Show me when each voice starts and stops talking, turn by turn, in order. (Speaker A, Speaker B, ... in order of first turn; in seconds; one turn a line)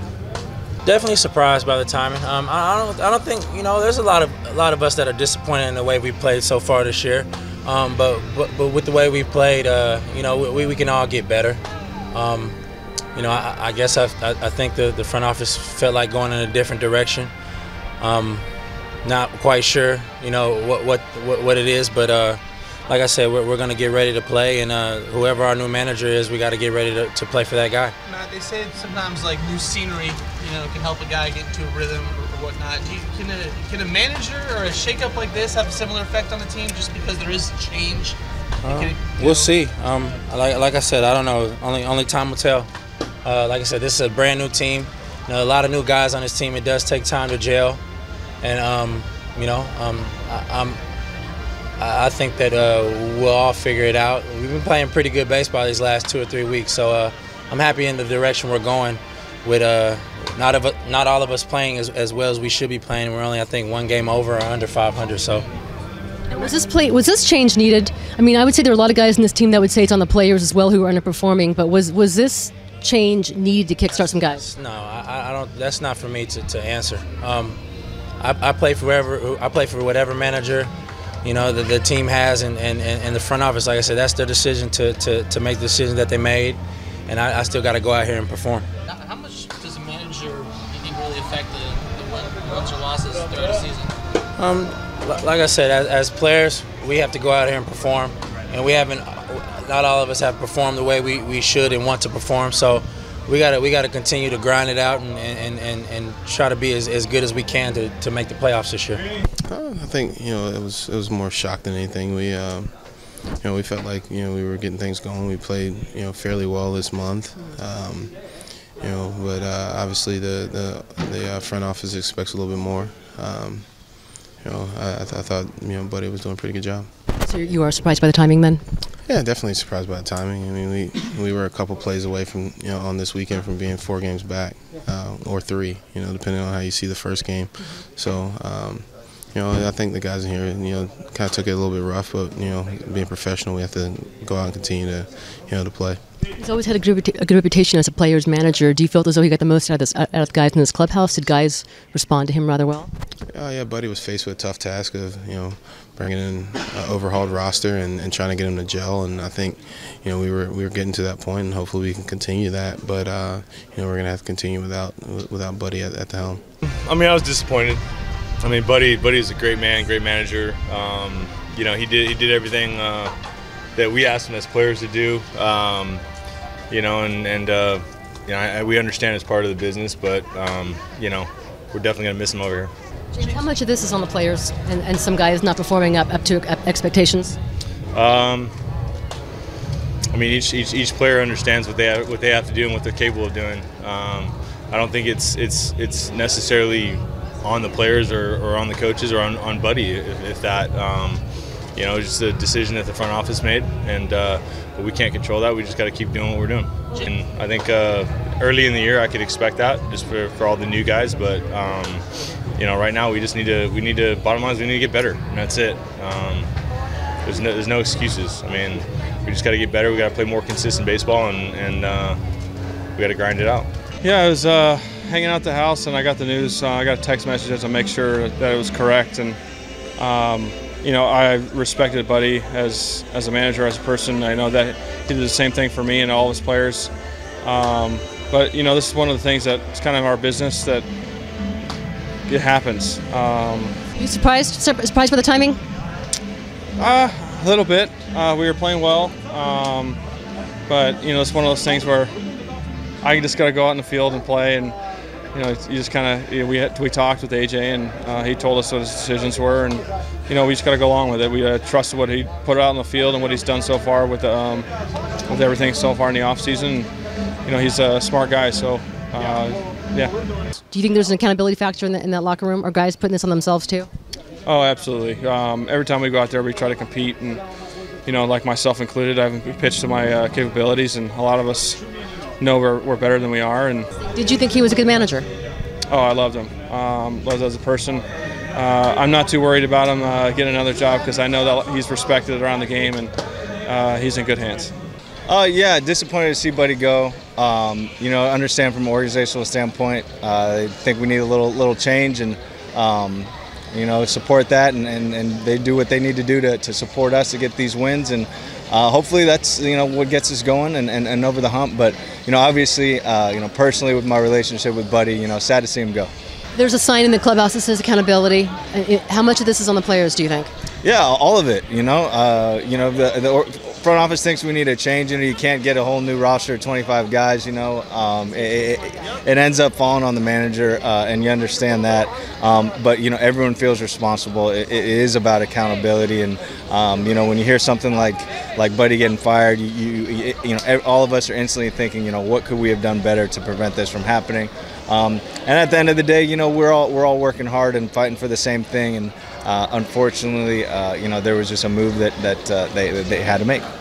Speaker A: 0.8-11.6
Speaker A: 12.1-12.6
Speaker A: 13.1-17.3
Speaker A: 18.0-18.4
Speaker A: 19.0-27.9
Speaker B: 28.0-39.5
Speaker A: 38.6-42.7
Speaker A: 43.2-47.8
Speaker A: 48.4-50.8
Speaker A: 51.8-65.5
Speaker C: 66.3-74.4
Speaker A: 74.0-77.6
Speaker A: 78.2-80.7
Speaker A: 81.2-88.7
Speaker B: 88.8-93.9
Speaker A: 94.4-109.0
Speaker D: 109.5-127.0
Speaker C: 127.2-128.6
Speaker D: 129.0-146.1
Speaker C: 146.4-152.9
Speaker D: 153.3-166.4
Speaker E: 166.6-167.8
Speaker E: 168.4-173.1
Speaker E: 173.8-176.0
Speaker E: 176.7-182.7
Speaker C: 183.1-187.4
Speaker E: 187.9-188.5
Speaker E: 190.1-201.2
Speaker E: 201.7-212.0
Speaker E: 212.6-216.5
Speaker E: 217.2-222.2
Speaker E: 223.0-223.7
Speaker F: 224.0-229.4
Speaker F: 230.0-236.9
Speaker F: 237.4-240.8
Speaker F: 242.3-243.7
Speaker C: 243.9-245.6
Speaker F: 246.8-250.0
Speaker F: 250.7-252.1
Speaker F: 253.0-254.8
Speaker F: 255.3-264.7
Speaker F: 265.3-266.9
Speaker F: 267.4-270.1
Speaker C: 270.7-273.9
Speaker F: 274.4-277.4
Speaker F: 278.1-281.8
Speaker F: 282.4-283.9
Speaker C: 284.0-285.3
Speaker F: 285.9-293.1
Speaker F: 293.6-294.7
Speaker G: 295.3-316.1
Speaker C: 316.5-320.5
Speaker G: 320.8-353.6